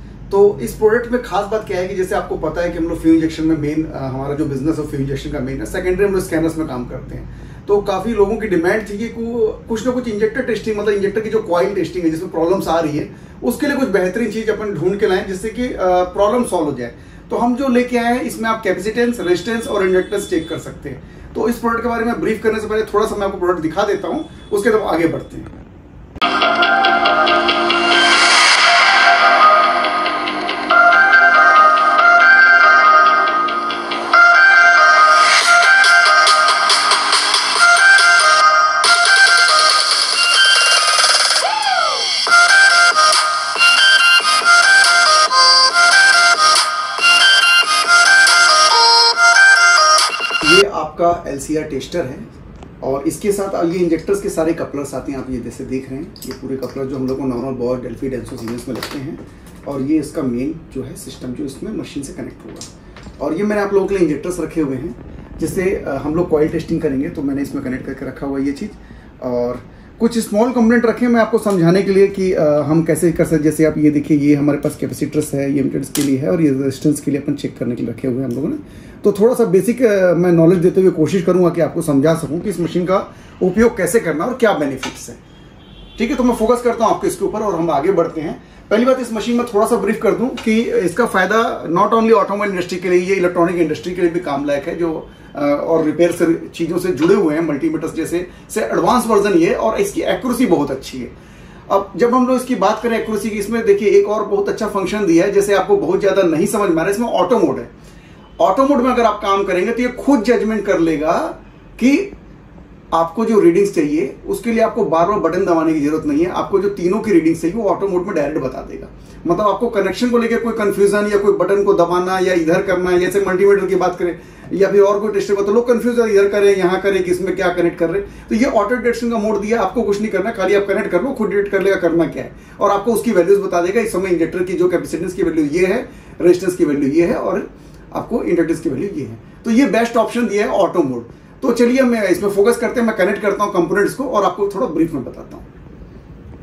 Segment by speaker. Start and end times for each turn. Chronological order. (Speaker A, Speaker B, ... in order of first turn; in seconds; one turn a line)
Speaker A: 0.3-25.5
Speaker A: 50.4-52.3
Speaker A: 52.8-85.2
Speaker A: 86.0-101.1
Speaker A: 101.7-107.7
Speaker A: 108.4-112.1
Speaker A: 112.9-145.4